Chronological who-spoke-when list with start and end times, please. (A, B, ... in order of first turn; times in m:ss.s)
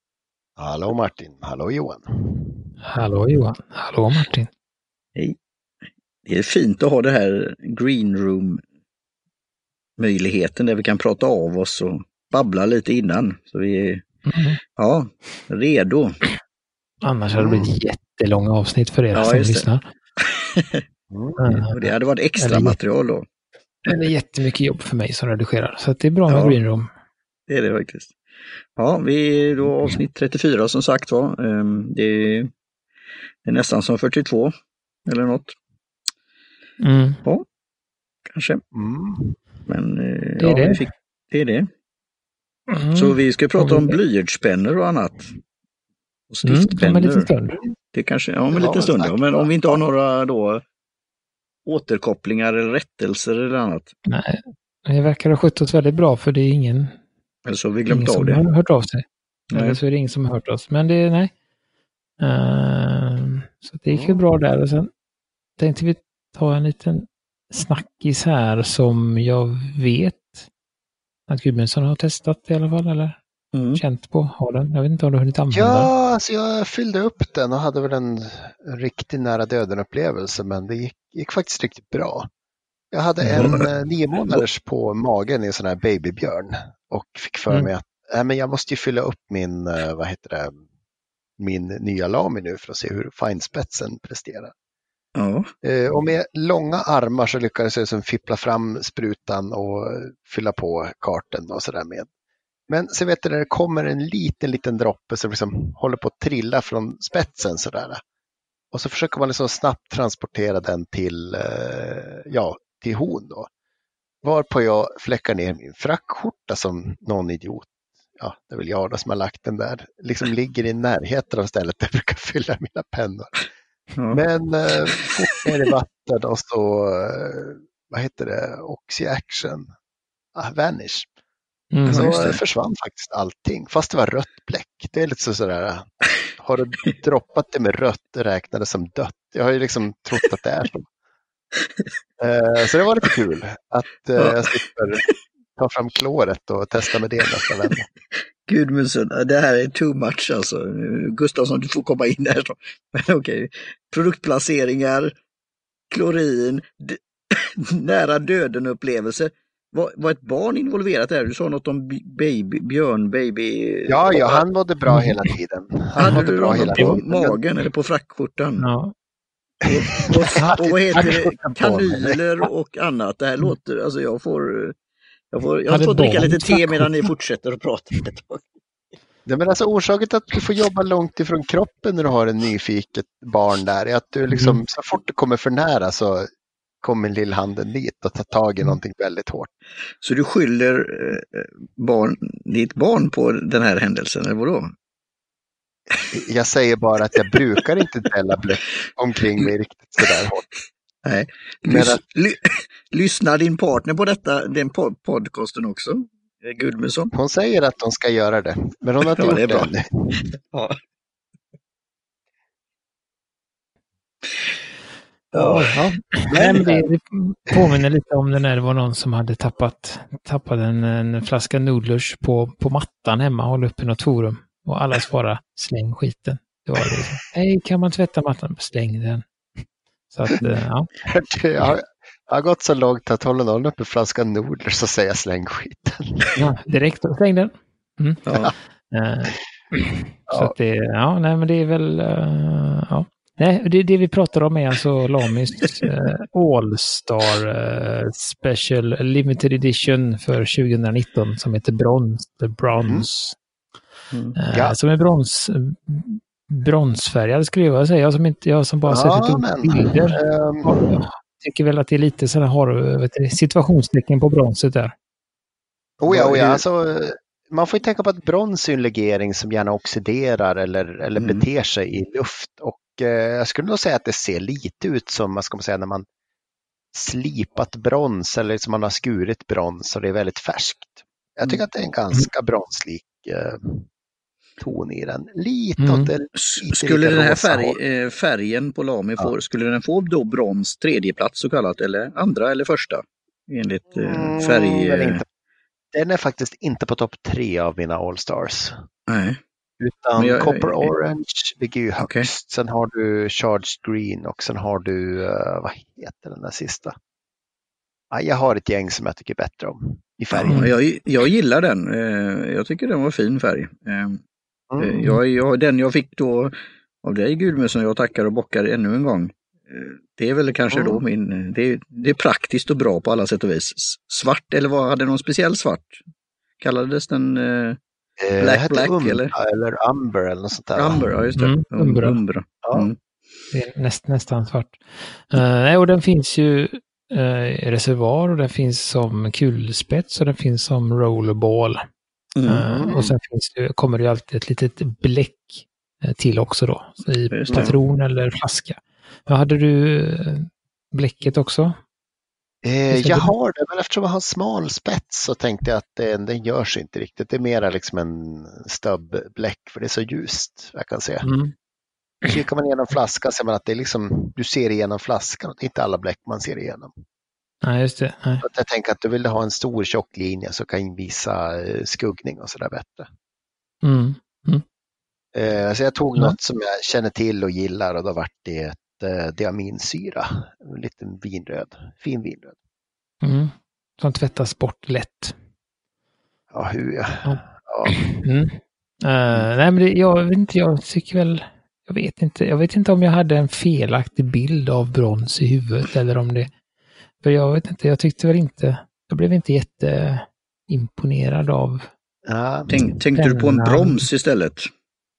0:00.6-0:02.6 A
0:02.8-0:04.5 B
0:06.2-0:08.6 C
0:10.0-0:14.0 C
0:14.2-0:14.6 B
0:14.8-0:16.2 C
0:17.0-0:19.8 B
0:17.4-0:17.7 A
0:19.1-0:19.6 C
0:20.2-0:20.8 C
0:21.1-0:21.6 A
0:21.4-0:21.8 B
0:21.7-0:23.2 C
0:22.4-0:22.8 B
0:23.8-0:26.9 B
0:26.3-0:26.6 C
0:27.5-0:28.1 C
0:28.8-0:32.5 C
0:33.4-0:34.5 C
0:35.0-0:35.6 C
0:36.8-0:37.2 B
0:38.3-0:38.6 C
0:38.7-0:39.4 A
0:39.7-0:41.7 C
0:40.4-0:40.8 B
0:42.7-0:44.0 B
0:43.0-0:45.3 C
0:46.3-0:47.3 C
0:46.4-0:47.6 B
0:47.9-0:50.6 C
0:48.5-0:49.8 A
0:51.6-0:53.9 C
0:54.0-0:57.0 B
0:57.4-0:58.4 C
0:57.9-1:01.3 B
0:59.5-0:59.8 C
1:02.2-1:04.9 B
1:03.9-1:04.2 A
1:05.6-1:10.4 B
1:11.3-1:13.2 B
1:13.5-1:13.8 C
1:13.7-1:15.9 B
1:15.5-1:22.3 A
1:22.9-1:30.5 A
1:23.3-1:23.7 C
1:31.4-1:34.5 A
1:35.2-1:35.5 C
1:35.6-1:42.1 A
1:42.7-1:48.0 A
1:48.7-1:53.5 A
1:54.2-2:03.3 A
2:04.1-2:09.7 A
2:10.3-2:11.1 A
2:11.7-2:12.2 B
2:11.9-2:12.4 C
2:11.9-2:20.8 A
2:22.2-2:25.0 A
2:24.2-2:24.5 C
2:25.6-2:27.9 A
2:27.5-2:27.8 C
2:28.5-2:35.1 C
2:35.9-2:44.4 C
2:43.9-2:47.4 A
2:44.9-2:45.1 B
2:46.0-2:47.0 B
2:46.0-2:48.6 C
2:48.6-2:48.9 B
2:49.6-2:52.4 A
2:49.7-2:54.8 C
2:55.3-2:58.4 C
2:55.7-2:57.1 B
2:59.2-3:06.3 A
3:04.3-3:04.6 B
3:06.8-3:09.5 A
3:10.0-3:14.7 C
3:16.1-3:20.4 A
3:21.0-3:27.1 C
3:21.6-3:22.0 A
3:27.1-3:30.3 A
3:29.1-3:29.7 C
3:30.4-3:30.8 C
3:35.3-3:35.7 C
3:35.3-3:49.2 B
3:36.3-3:36.9 A
3:50.1-3:50.9 B
3:51.0-3:56.3 A
3:56.4-3:58.2 B
3:58.2-3:58.5 C
3:58.9-4:13.4 B
4:14.3-4:24.9 B
4:18.9-4:21.0 A
4:26.0-4:36.0 A
4:26.1-4:26.6 C
4:31.2-4:31.4 C
4:36.9-4:43.9 A
4:44.6-4:47.8 A
4:45.8-4:46.1 B
4:46.3-4:55.2 C
4:54.0-4:55.2 A
4:55.9-4:58.7 A
4:59.1-4:59.4 C
4:59.8-5:06.9 A
5:00.2-5:00.9 C
5:02.0-5:02.3 C
5:08.1-5:10.7 A
5:10.3-5:14.2 C
5:10.5-5:10.7 B
5:14.7-5:15.0 A
5:14.8-5:26.0 C
5:20.7-5:21.0 A
5:26.6-5:27.8 C
5:28.2-5:31.1 A
5:28.4-5:29.3 C
5:30.8-5:33.0 C
5:31.4-5:32.2 B
5:33.5-5:41.8 B
5:42.4-5:42.6 C
5:42.5-5:51.8 B
5:42.6-5:43.2 A
5:47.3-5:47.8 C
5:52.6-6:01.2 A
5:52.9-5:53.3 B
6:01.2-6:01.5 B
6:02.2-6:06.9 A
6:07.6-6:08.4 B
6:08.4-6:13.1 A
6:13.8-6:14.6 B
6:15.3-6:22.5 A
6:23.2-6:25.3 B
6:26.5-6:27.9 A
6:27.2-6:36.5 B
6:37.2-6:41.9 B
6:42.3-6:42.9 A
6:42.7-6:44.7 C
6:43.1-6:44.0 B